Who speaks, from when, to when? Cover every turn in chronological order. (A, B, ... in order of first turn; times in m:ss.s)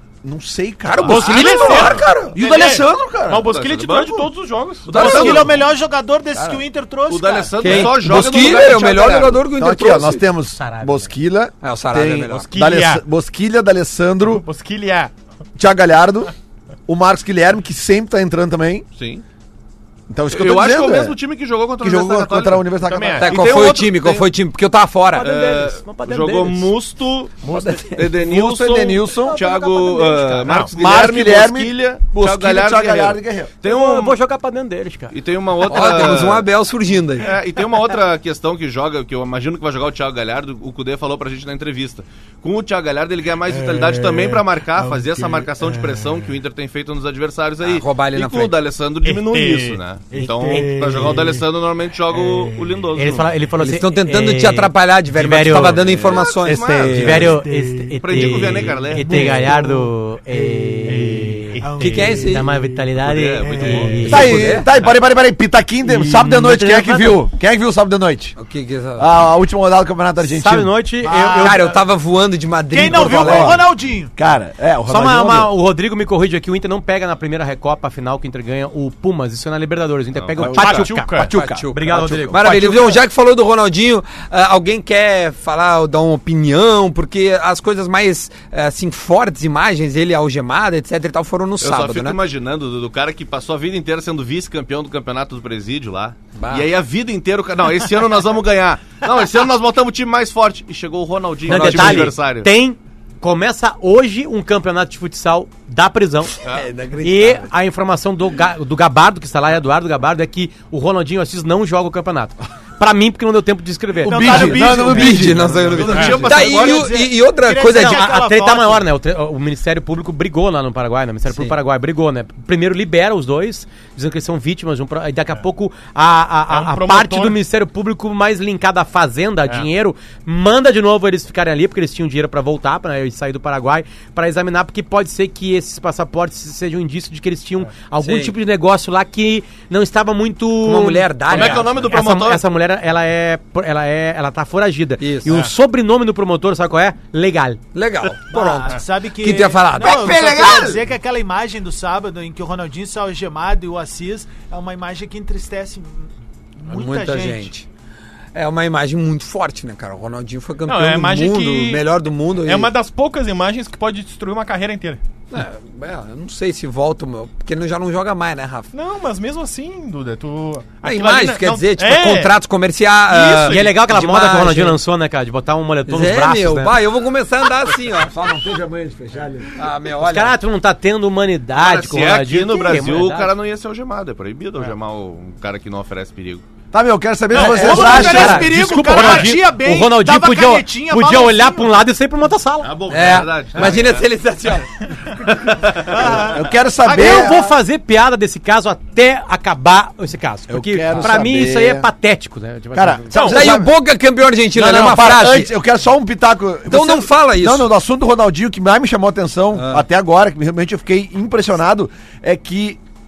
0:00.2-0:03.5 A
0:00.9-0:02.4 B
0:00.9-0:02.0 C
0:01.0-0:05.2 D
0:03.4-0:04.3 C
0:04.9-0:05.5 B
0:04.9-0:07.9 E
0:04.9-0:05.5 C
0:07.1-0:09.4 C
0:07.6-0:10.2 B
0:07.8-0:08.0 A
0:09.5-0:14.4 A
0:10.6-0:11.1 F
0:11.6-0:12.5 B
0:12.5-0:13.0 D
0:14.2-0:15.1 D
0:15.6-0:16.3 A
0:16.9-0:18.8 A
0:18.9-0:19.2 C
0:20.1-0:21.2 A
0:20.3-0:24.3 C
0:21.8-0:23.6 A
0:22.8-0:23.6 D
0:23.2-0:25.5 B
0:25.1-0:34.2 C
0:27.5-0:28.1 B
0:28.0-0:29.4 A
0:29.2-0:30.6 E
0:30.4-0:30.8 D
0:30.7-0:33.5 A
0:33.6-0:35.2 F
0:35.1-0:36.5 C
0:35.6-0:37.3 B
0:37.1-0:53.3 C
0:43.8-0:44.4 E
0:45.0-0:46.0 E
0:47.6-0:48.6 B
0:49.0-0:51.2 D
0:50.1-0:51.3 E
0:53.0-0:55.8 F
0:53.6-0:57.4 B
0:55.8-0:57.4 C
0:56.4-1:02.8 E
0:56.9-1:04.6 F
0:58.0-0:59.5 C
1:00.8-1:02.0 D
1:01.8-1:02.4 B
1:03.0-1:05.0 C
1:03.4-1:04.0 E
1:04.0-1:04.7 B
1:04.0-1:08.3 A
1:05.8-1:07.2 F
1:08.4-1:09.1 B
1:09.0-1:10.7 A
1:10.2-1:11.6 F
1:11.0-1:11.8 E
1:11.4-1:13.6 B
1:12.7-1:14.1 E
1:12.8-1:13.6 A
1:14.2-1:15.5 A
1:14.9-1:22.6 F
1:20.1-1:20.9 C
1:20.4-1:22.0 A
1:20.4-1:21.3 D
1:21.2-1:32.2 B
1:21.9-1:22.9 E
1:31.6-1:42.5 C
1:36.4-1:36.7 B
1:41.4-1:46.3 F
1:41.5-1:42.1 B
1:46.4-1:47.5 B
1:47.0-1:55.3 F
1:54.0-1:55.5 A
1:54.1-1:58.8 E
1:54.2-1:58.1 B
1:55.6-1:56.9 C
1:55.8-1:56.3 D
1:57.7-2:27.6 F
2:01.3-2:01.5 B
2:06.5-2:07.4 D
2:18.0-2:18.3 B
2:20.6-2:21.9 B
2:21.3-2:22.4 C
2:25.0-2:25.3 B
2:25.3-2:25.5 D
2:27.7-2:30.3 B
2:28.3-2:37.5 E
2:29.8-2:30.8 A
2:36.6-2:37.7 B
2:38.3-2:42.7 B
2:40.6-2:41.8 D
2:42.4-2:45.0 D
2:45.3-2:48.7 B
2:48.7-2:52.3 D
2:50.8-2:54.8 B
2:53.1-2:53.8 D
2:53.3-2:56.8 F
2:55.8-2:58.1 B
2:58.1-2:59.6 A
2:59.6-3:00.4 B
3:00.0-3:03.3 F
3:01.5-3:06.4 C
3:06.7-3:08.6 A
3:07.3-3:08.5 B
3:07.3-3:11.8 E
3:07.6-3:12.7 F
3:12.6-3:14.0 C
3:12.9-3:14.7 B
3:15.6-3:15.9 C
3:15.9-3:17.5 E
3:16.3-3:17.4 A
3:16.9-3:23.2 F
3:20.5-3:21.9 A
3:22.7-3:23.7 A
3:23.1-3:23.6 D
3:23.2-3:25.5 B
3:24.5-3:32.8 A
3:26.7-3:27.7 B
3:29.5-3:29.8 B